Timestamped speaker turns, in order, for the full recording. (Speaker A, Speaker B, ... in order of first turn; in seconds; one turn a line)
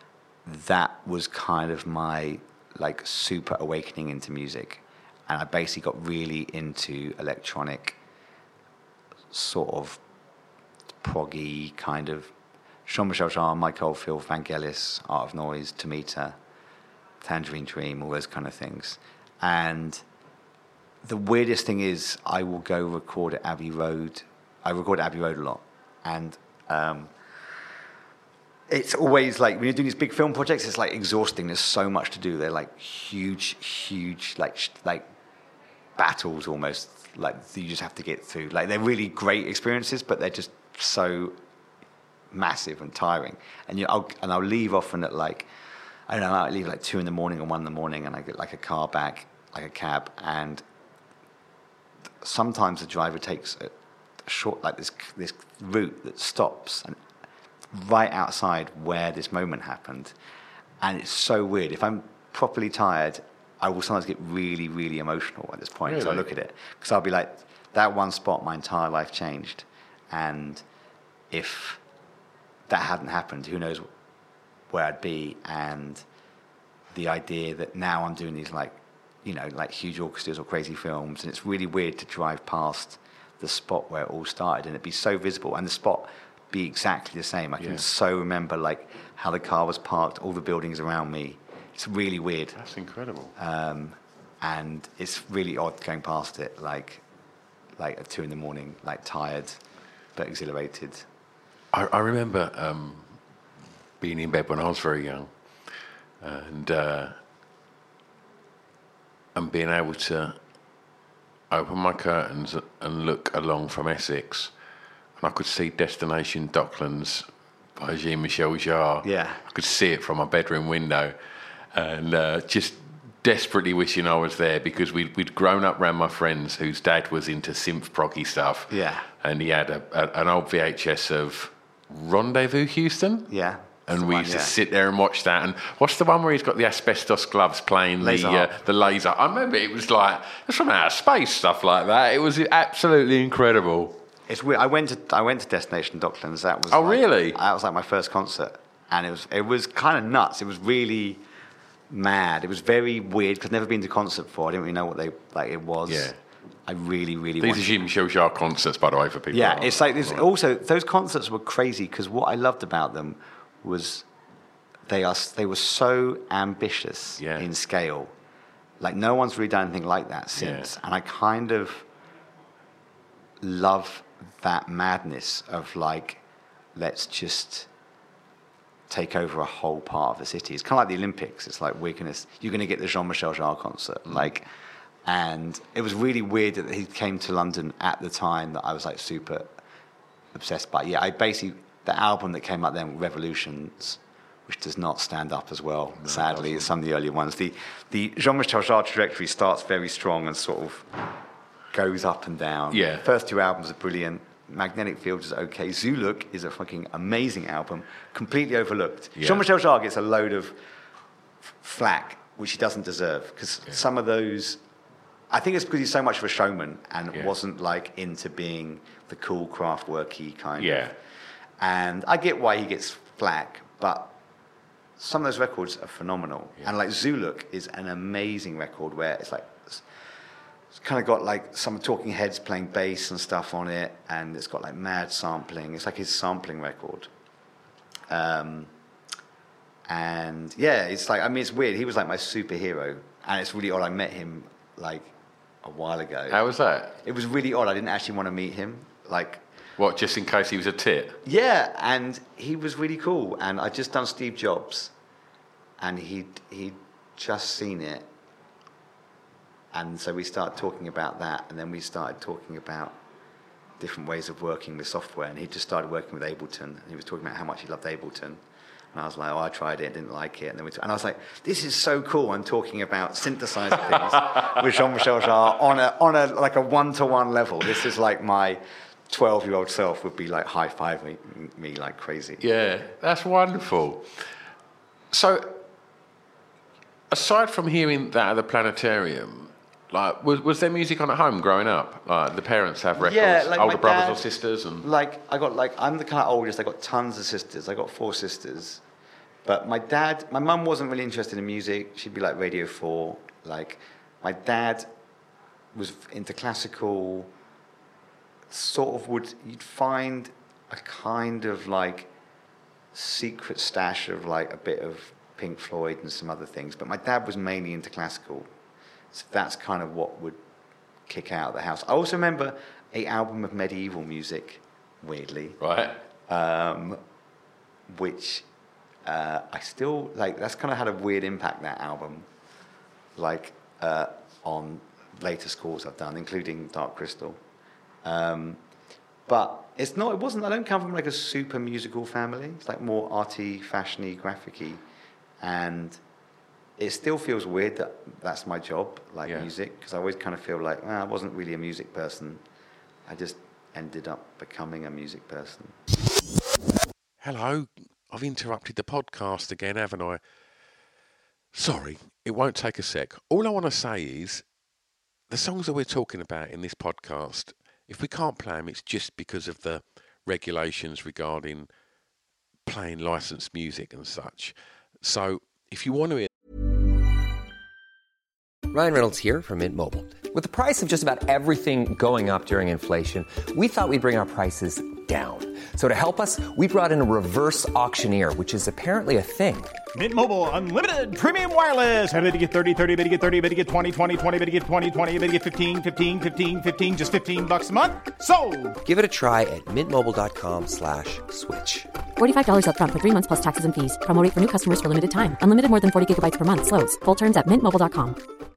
Speaker A: 0.4-8.0
Speaker A: 9.3-10.0
Speaker A: 11.0-12.3
Speaker A: 12.9-16.4
Speaker A: 17.2-20.0
Speaker A: 21.0-27.1
Speaker A: 28.7-35.1
Speaker A: 36.0-41.4
Speaker A: 42.3-45.5
Speaker A: 46.1-50.6
Speaker A: 52.2-53.7
Speaker A: 54.2-57.0
Speaker A: 57.7-60.1
Speaker A: 60.8-70.6
Speaker B: 65.8-66.2
Speaker A: 71.3-71.8
Speaker A: 72.7-73.9
Speaker A: 74.7-76.0
Speaker A: 76.9-92.6
Speaker B: 87.6-87.8
Speaker B: 92.5-93.3
Speaker A: 93.4-97.0
Speaker A: 97.8-99.6
Speaker A: 100.1-101.0
Speaker B: 101.7-103.2
Speaker B: 104.0-107.2
Speaker B: 109.3-110.4
Speaker B: 111.5-114.5
Speaker B: 115.2-121.2
Speaker A: 119.0-119.4
Speaker B: 121.7-133.3
Speaker A: 128.7-129.1
Speaker A: 133.3-134.5
Speaker B: 133.9-144.0
Speaker A: 138.0-138.5
Speaker A: 144.3-151.2
Speaker B: 146.7-147.4
Speaker A: 151.9-156.1
Speaker B: 155.9-156.2
Speaker A: 156.7-157.8
Speaker B: 157.4-160.2
Speaker A: 159.3-164.0
Speaker A: 164.9-168.1
Speaker B: 167.2-167.5
Speaker A: 168.8-171.9
Speaker B: 170.3-170.7
Speaker A: 173.4-176.2
Speaker A: 176.7-177.7
Speaker A: 178.9-184.5
Speaker A: 185.0-189.5
Speaker A: 190.3-201.0
Speaker B: 196.0-196.7
Speaker A: 201.7-210.6
Speaker B: 202.7-203.1
Speaker B: 209.2-209.4
Speaker A: 211.6-214.6
Speaker A: 215.3-220.9
Speaker B: 220.6-220.9
Speaker A: 221.6-224.1
Speaker A: 225.0-229.8
Speaker A: 230.7-237.1
Speaker A: 238.1-238.7
Speaker A: 239.9-245.1
Speaker A: 245.6-246.4
Speaker B: 246.3-247.0
Speaker A: 247.0-249.4
Speaker B: 249.8-251.2
Speaker A: 251.2-254.9
Speaker A: 255.8-258.1
Speaker A: 259.7-263.0
Speaker A: 263.8-268.4
Speaker A: 268.9-282.4
Speaker B: 282.4-284.3
Speaker B: 285.1-285.6
Speaker B: 287.1-294.9
Speaker A: 292.9-294.3
Speaker A: 294.8-298.8
Speaker A: 299.4-304.9
Speaker A: 305.7-307.3
Speaker A: 308.5-312.1
Speaker A: 312.9-318.5
Speaker A: 319.1-320.4
Speaker A: 321.1-325.6
Speaker B: 325.6-326.0
Speaker A: 326.3-327.0
Speaker A: 327.9-328.4
Speaker A: 329.0-332.3
Speaker A: 333.1-337.4
Speaker A: 338.0-338.6
Speaker A: 339.3-344.8
Speaker A: 345.4-346.0
Speaker A: 346.8-352.4
Speaker B: 349.2-349.5
Speaker A: 353.1-355.8
Speaker B: 357.2-360.2
Speaker B: 361.5-364.4
Speaker B: 365.3-371.7
Speaker B: 372.6-376.3
Speaker C: 378.7-389.8
Speaker D: 389.9-398.8
Speaker C: 398.8-401.9
Speaker E: 402.2-408.2